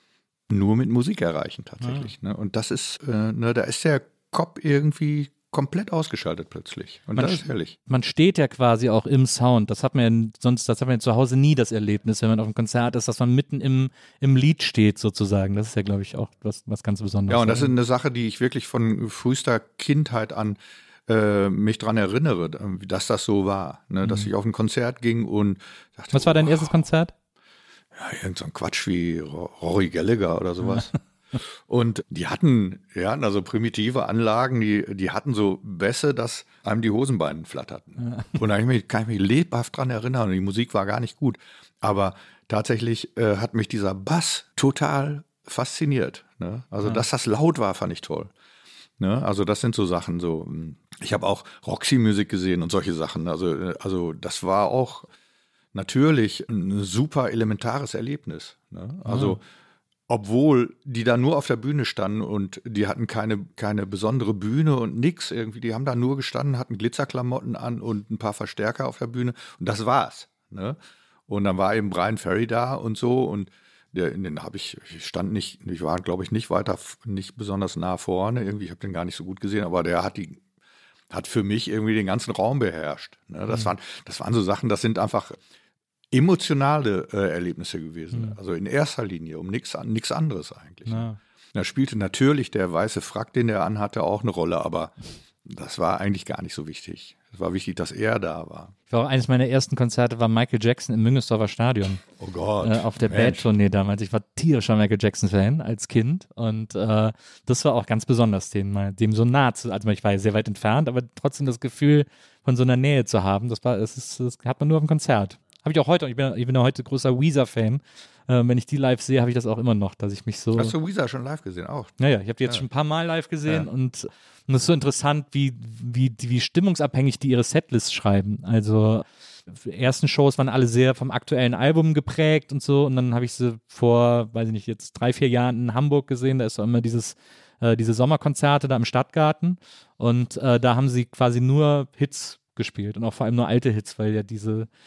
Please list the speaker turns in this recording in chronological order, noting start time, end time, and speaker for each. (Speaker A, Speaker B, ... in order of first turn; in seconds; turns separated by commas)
Speaker A: 0.5-7.7, Speaker B: 1.8-2.1, Speaker B: 7.2-17.7, Speaker A: 17.3-26.7, Speaker B: 24.0-24.3, Speaker B: 26.1-27.1, Speaker A: 27.9-30.9, Speaker A: 31.7-48.3, Speaker B: 38.0-38.4, Speaker A: 49.0-55.1, Speaker A: 55.7-59.4, Speaker B: 59.0-59.4, Speaker A: 60.1-70.8, Speaker A: 71.3-80.4, Speaker A: 81.1-85.4, Speaker A: 86.1-94.9, Speaker B: 90.9-91.2, Speaker A: 95.5-98.7, Speaker B: 98.9-102.0, Speaker A: 102.2-103.5, Speaker B: 102.6-120.7, Speaker A: 120.5-122.6, Speaker B: 122.0-144.7